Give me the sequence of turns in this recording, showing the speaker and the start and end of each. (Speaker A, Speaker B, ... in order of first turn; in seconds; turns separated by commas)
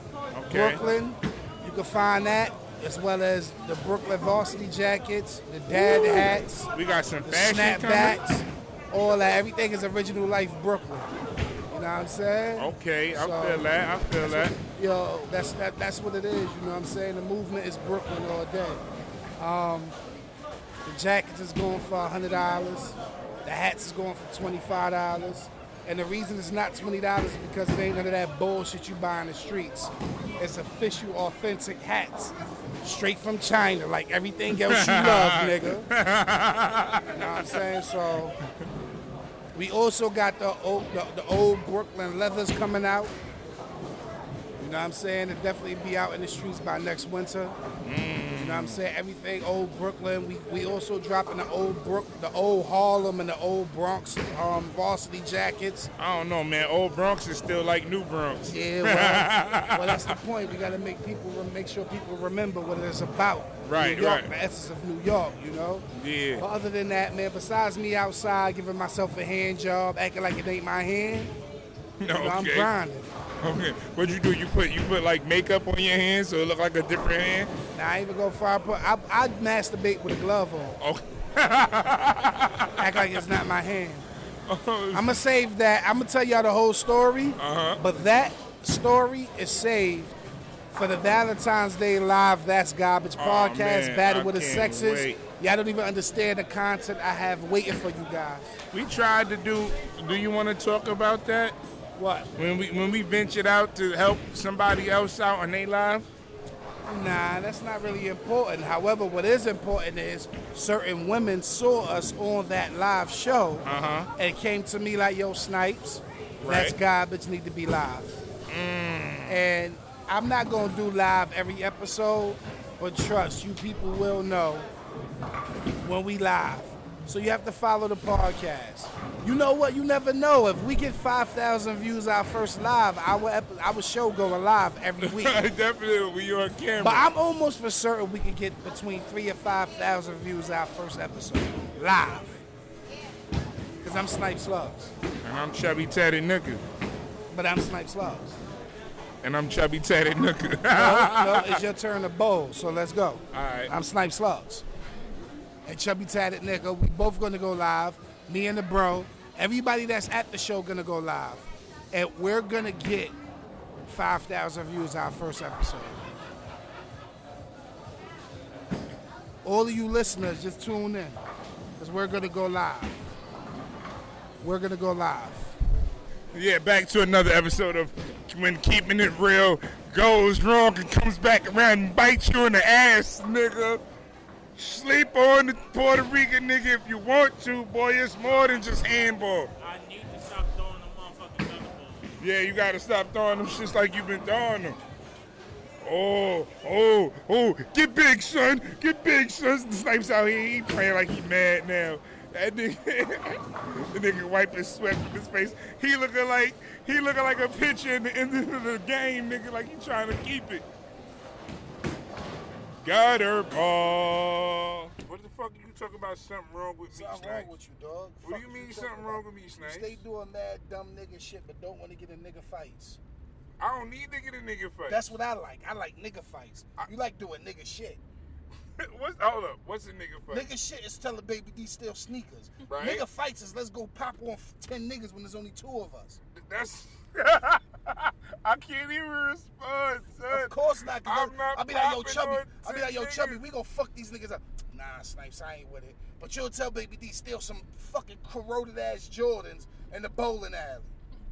Speaker A: 0.3-0.8, Speaker B: 0.5-6.7, Speaker A: 5.7-8.2, Speaker B: 7.2-11.1, Speaker B: 11.7-13.7, Speaker A: 12.6-14.5, Speaker B: 14.2-18.8, Speaker B: 19.4-19.9, Speaker B: 20.8-35.9, Speaker A: 34.5-37.6, Speaker B: 37.1-38.3, Speaker B: 39.5-43.1, Speaker B: 44.6-47.5, Speaker A: 47.8-48.8, Speaker B: 48.3-55.9, Speaker A: 56.0-60.2, Speaker B: 58.5-65.8, Speaker A: 63.6-64.3, Speaker A: 65.9-66.4, Speaker B: 66.4-71.3, Speaker A: 72.0-72.7, Speaker B: 72.1-73.1, Speaker A: 73.4-77.5, Speaker B: 77.7-80.8, Speaker A: 80.8-83.2, Speaker B: 82.8-84.0, Speaker A: 84.5-85.2, Speaker B: 84.9-90.1, Speaker A: 87.4-87.8, Speaker B: 90.7-98.5, Speaker A: 93.2-95.2, Speaker A: 98.7-101.5, Speaker B: 102.0-102.3, Speaker A: 102.4-106.1, Speaker B: 106.8-118.1, Speaker A: 113.6-114.1, Speaker A: 116.4-116.8, Speaker A: 118.5-119.4, Speaker B: 119.2-124.7, Speaker B: 125.8-135.5, Speaker A: 135.0-137.1, Speaker B: 136.8-142.4, Speaker B: 143.8-144.9, Speaker A: 145.2-146.6, Speaker B: 147.3-148.4, Speaker A: 149.2-151.6, Speaker B: 150.7-154.6, Speaker A: 153.3-153.7, Speaker B: 155.6-163.2, Speaker B: 163.8-166.0, Speaker B: 169.4-171.2, Speaker B: 171.8-173.0, Speaker B: 174.4-175.6, Speaker A: 176.3-183.8, Speaker A: 184.6-189.5, Speaker C: 188.2-188.8, Speaker C: 189.6-192.2, Speaker A: 192.2-194.8, Speaker A: 195.8-210.6, Speaker A: 212.8-217.5, Speaker B: 216.9-223.0, Speaker A: 218.2-220.0, Speaker A: 223.6-225.1, Speaker B: 224.9-228.0, Speaker A: 228.8-230.5, Speaker B: 230.3-236.2, Speaker A: 232.7-233.0, Speaker A: 236.3-243.4, Speaker B: 240.3-250.9